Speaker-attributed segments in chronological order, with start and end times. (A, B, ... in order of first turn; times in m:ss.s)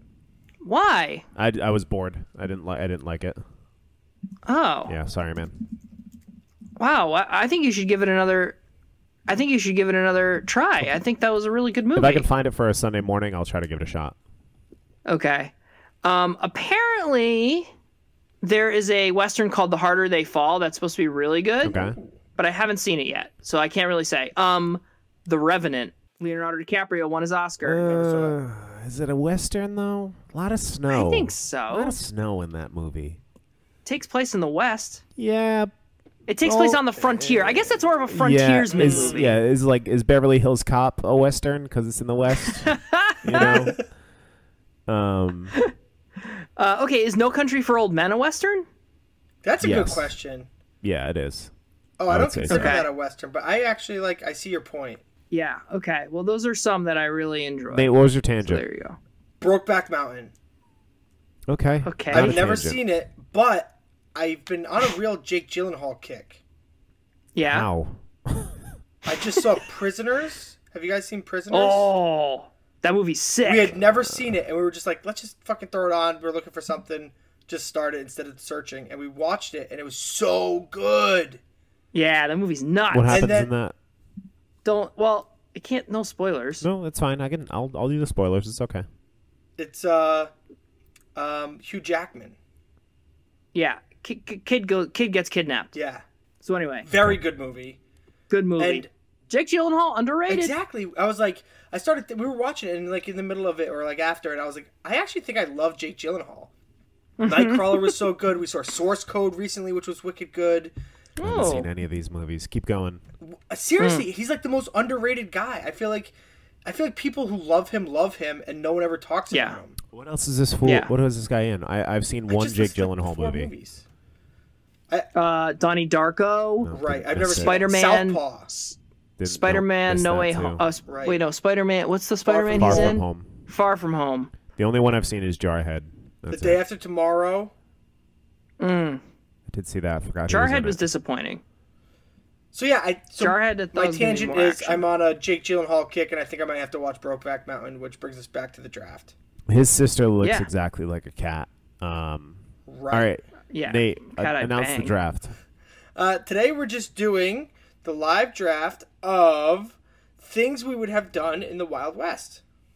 0:00.6-0:01.2 A
0:01.4-0:03.4 B
0:04.4-0:04.9 A
0:04.9-0:05.5 B
0:06.8-0:08.6 A
0:09.3-0:12.3 A
0:12.0-0:14.2 B
0:15.1-0:15.5 A
0:16.0-0:17.7 A
0:18.4-0:21.8 A
0:21.6-0:22.0 B
0:22.4-0:27.8 A
0:27.6-0:33.2 B
0:27.8-0:28.4 C
0:30.9-0:32.0 A
0:33.8-0:35.0 A
0:35.2-0:35.7 B
0:36.3-0:39.4 A
0:36.4-0:36.8 B
0:37.0-0:37.7 C
0:38.1-0:43.8 B
0:38.7-0:39.2 C
0:42.4-0:43.7 A
0:43.3-0:43.8 C
0:44.9-0:45.5 B
0:46.6-0:48.6 A
0:49.4-0:50.5 C
0:49.6-0:50.1 B
0:50.8-0:51.5 B
0:52.0-0:55.0 C
0:52.1-0:52.8 B
0:52.5-0:52.9 A
0:55.3-0:59.0 A
0:57.7-0:58.6 B
0:59.4-1:00.3 C
1:01.5-1:02.8 B
1:01.8-1:02.4 A
1:02.1-1:06.4 C
1:07.3-1:07.7 A
1:07.5-1:08.5 B
1:09.0-1:11.9 C
1:11.5-1:13.8 A
1:13.4-1:21.4 C
1:21.9-1:23.3 A
1:22.9-1:23.7 B
1:23.1-1:23.5 C
1:24.6-1:26.6 A
1:26.6-1:28.8 B
1:29.6-1:30.3 C
1:31.1-1:32.4 C
1:33.5-1:35.7 A
1:35.7-1:36.0 C
1:36.4-1:36.9 A
1:36.8-1:37.8 C
1:38.3-1:40.5 A
1:38.6-1:38.9 C
1:40.3-1:46.5 C
1:47.2-1:48.0 A
1:47.2-1:50.7 C
1:51.2-1:51.7 A
1:51.2-1:53.0 B
1:53.2-1:56.1 C
1:53.8-1:54.0 A
1:56.6-1:59.8 C
1:59.3-1:59.6 A
1:59.9-2:03.5 B
2:00.6-2:00.9 A
2:02.3-2:03.8 C
2:05.1-2:06.7 A
2:06.6-2:07.6 B
2:06.7-2:08.5 C
2:07.4-2:14.3 A
2:09.2-2:10.6 B
2:10.9-2:11.2 C
2:12.2-2:13.0 C
2:12.5-2:13.3 B
2:14.6-2:16.6 B
2:16.3-2:17.5 C
2:18.6-2:19.0 A
2:19.5-2:20.8 B
2:20.3-2:21.4 A
2:22.5-2:29.1 C
2:23.2-2:24.8 A
2:29.5-2:32.4 B
2:30.2-2:30.5 A
2:32.7-2:33.1 C
2:32.9-2:35.3 B
2:33.5-2:34.9 A
2:36.0-2:42.4 C